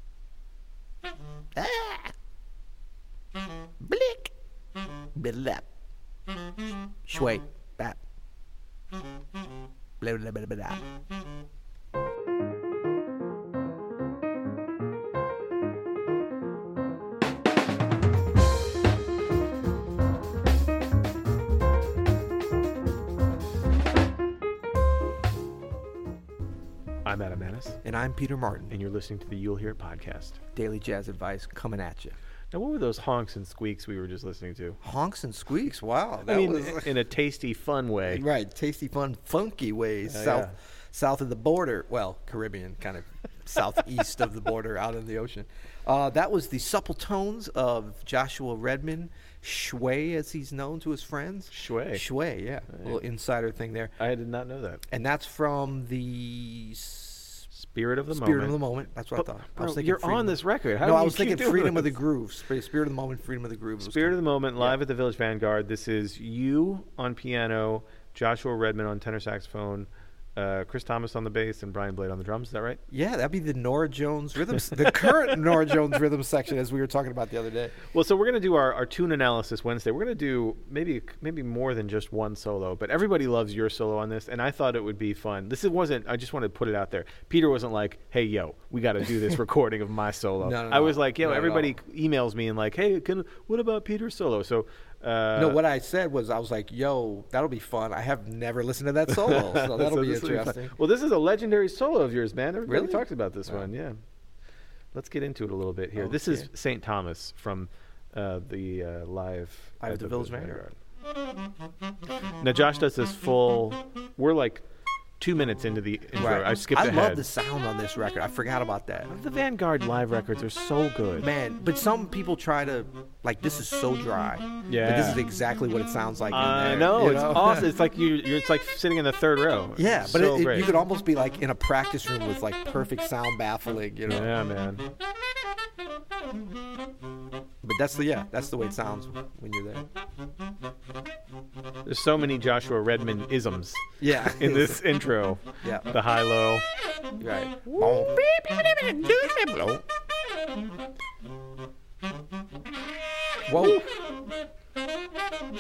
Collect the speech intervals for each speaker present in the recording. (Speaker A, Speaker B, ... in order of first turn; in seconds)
Speaker A: 1.6-2.1, 3.8-4.3, 5.2-5.7, 7.1-8.0, 10.0-10.8, 27.8-28.7, 30.5-32.2, 34.8-37.0, 38.0-53.9, 54.9-57.5, 58.1-64.8, 72.9-77.8, 90.4-91.7, 95.4-100.8, 102.7-103.7, 106.0-106.5, 109.8-110.6, 116.2-119.1, 121.2-127.7, 129.8-134.3, 137.6-139.9, 144.0-144.8, 145.6-145.9, 147.2-149.8, 153.5-153.8
Speaker B: 27.1-27.8, 28.7-30.4, 32.5-34.8, 36.3-38.2, 40.1-40.5, 51.5-52.0, 54.0-54.8, 57.5-58.6, 59.2-62.0, 63.8-72.8, 77.9-95.6, 99.1-104.0, 104.9-110.7, 112.4-114.6, 115.2-117.2, 119.1-121.3, 124.7-125.2, 126.3-130.7, 134.1-134.9, 141.8-146.6, 147.7-148.1, 153.6-153.9